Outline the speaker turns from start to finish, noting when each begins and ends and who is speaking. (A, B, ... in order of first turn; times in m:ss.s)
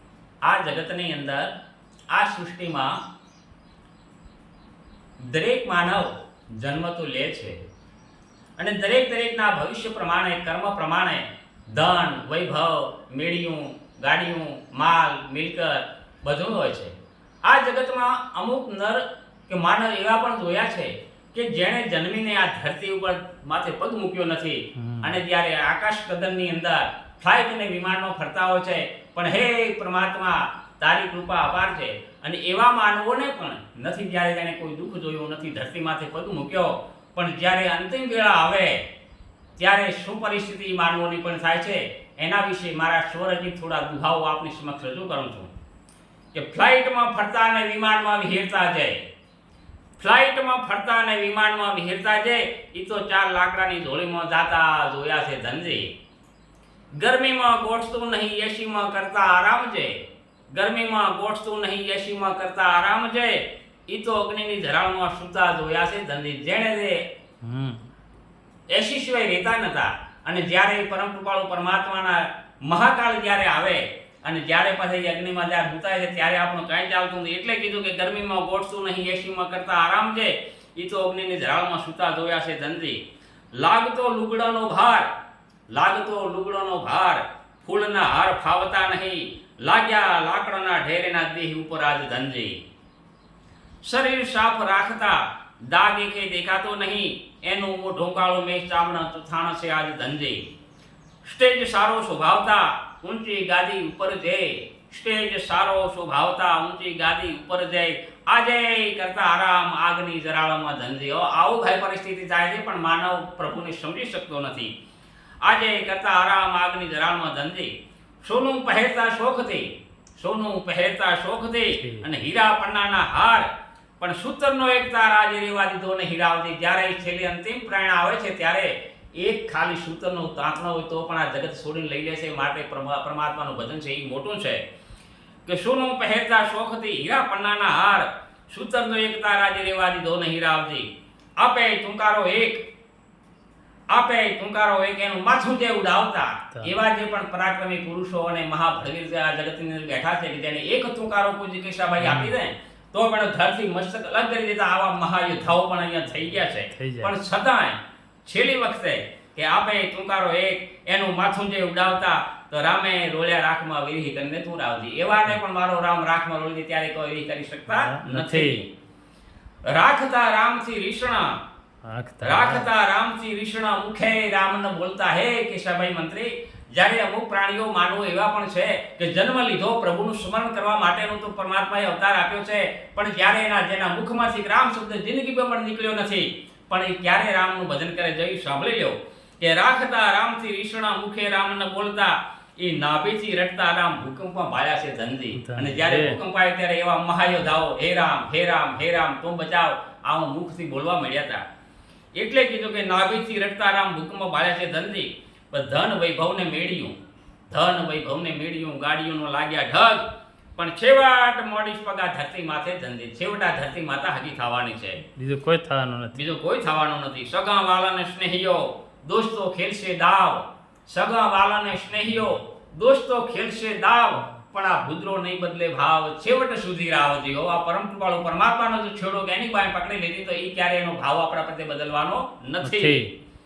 0:00.4-0:01.5 A
0:02.1-0:03.0 A
0:05.2-0:07.6 A
0:08.6-0:16.9 A
0:17.4-0:38.8 A
0:24.8-0:25.1 B
0:39.6-0:45.5 A
0:46.3-0:49.0 A
0:50.0-0:55.9 A
0:57.0-0:59.9 A
1:00.5-1:07.0 A
1:07.4-1:07.9 B
1:08.7-1:23.0 A
1:23.6-1:25.1 A
1:25.7-1:32.6 A
1:33.8-1:40.4 A
1:41.2-1:54.7 A
1:55.4-1:57.7 A
1:58.2-2:03.5 A
2:01.8-2:02.0 B
2:04.0-2:14.6 A
2:15.4-2:20.9 A
2:21.4-2:22.6 A
2:23.9-2:48.7 A
2:32.0-2:32.3 B
2:36.7-2:37.1 B
2:47.7-2:48.6 B
2:49.7-2:51.4 A
2:51.8-2:52.7 B
2:52.2-3:21.4 A
3:15.3-3:16.2 B
3:22.2-3:26.9 A
3:27.5-3:35.1 A
3:35.2-3:36.2 B
3:36.1-3:53.1 A
3:52.6-3:53.1 B